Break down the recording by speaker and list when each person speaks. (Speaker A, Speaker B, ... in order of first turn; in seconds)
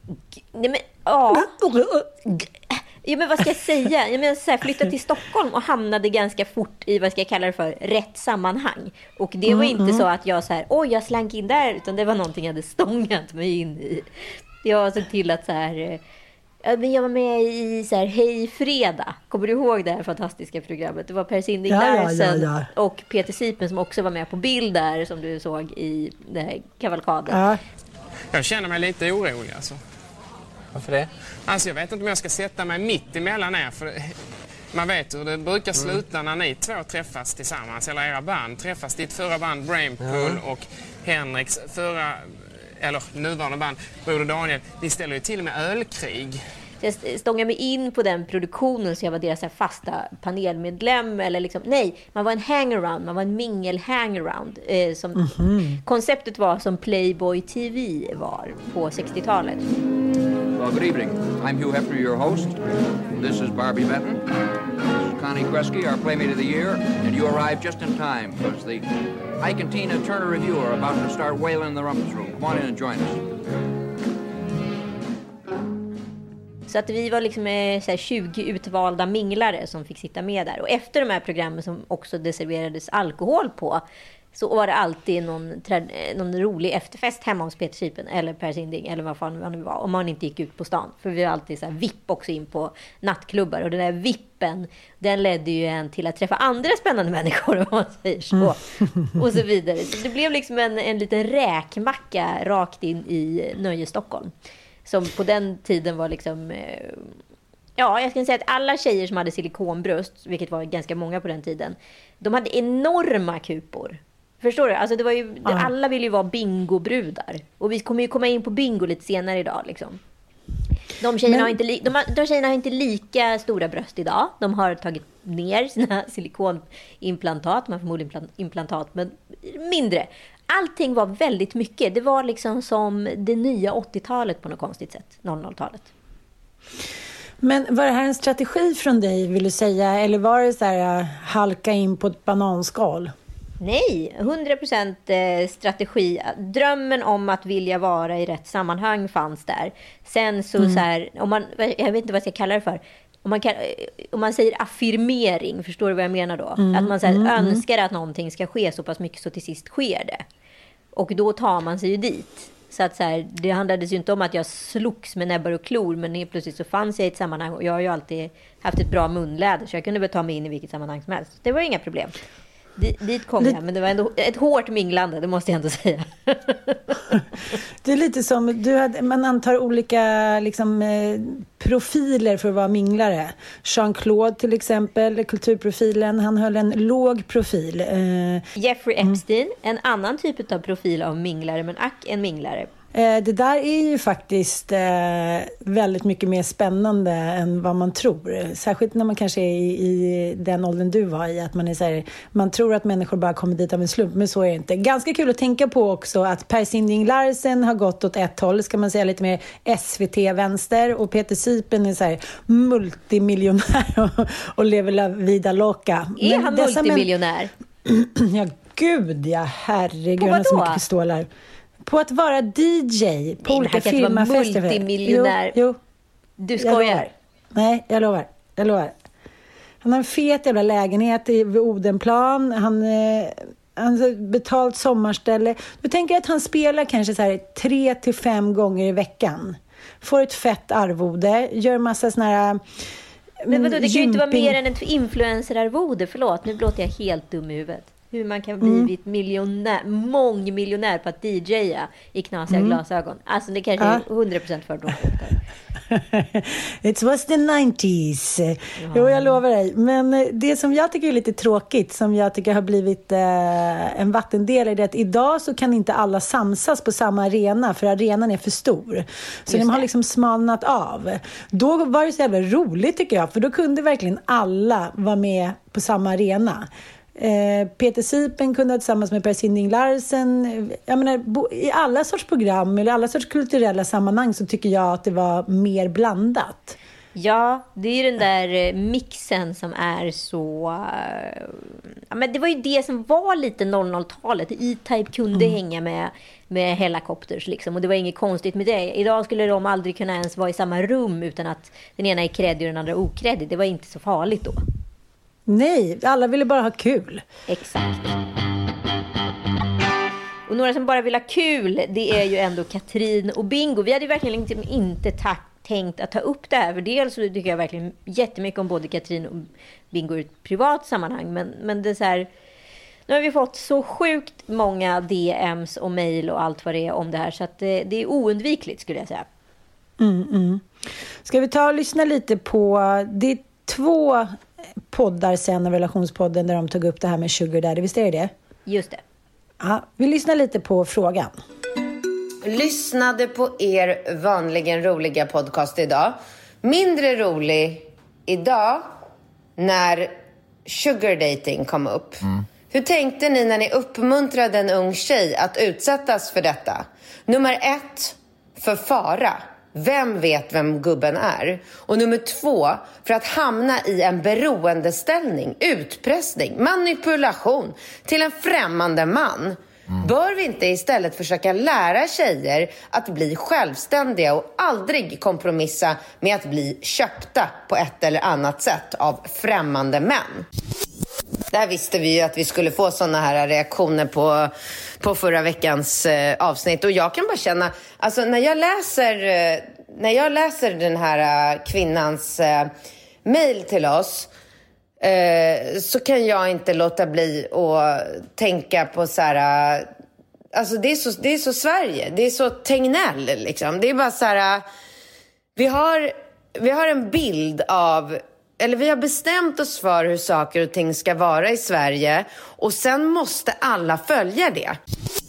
Speaker A: 0.5-1.5, 3.0-16.0, 16.6-27.4, 46.8-55.3, 55.8-59.6, 76.7-83.8, 84.3-98.6, 99.1-104.3, 104.8-107.2, 107.8-120.0, 121.0-135.9, 143.6-160.2, 160.9-172.2, 172.8-176.9, 188.6-192.7, 216.2-217.5, 220.2-220.8, 223.4-225.6, 226.4-227.1, 243.5-255.4, 258.8-259.4, 269.5-269.9, 287.1-304.6, 307.5-308.2, 310.5-322.3, 323.1-329.2, 338.6-339.0
Speaker B: 1.3-2.4, 9.5-10.0, 21.7-22.7, 27.3-27.6, 55.1-55.8, 98.4-99.1, 115.4-115.7, 121.3-121.5, 137.4-143.1, 156.6-157.6, 177.8-188.4, 192.9-217.1, 217.8-221.3, 221.8-225.8, 226.6-228.9, 229.8-242.6, 243.4-244.6, 248.6-248.9, 252.5-252.8, 253.8-254.0, 255.9-286.8, 305.5-307.2, 330.0-330.7, 331.2-334.3, 334.9-338.3, 339.6-341.4
Speaker C: 28.3-29.8, 30.8-34.2, 34.7-46.4
Speaker D: 60.5-62.6, 63.2-64.2, 64.9-68.8, 69.4-73.2
Speaker E: 342.4-348.9, 349.6-350.1, 350.6-380.4, 381.5-392.7, 393.2-394.3, 395.0-399.9, 400.5-404.6, 405.6-414.8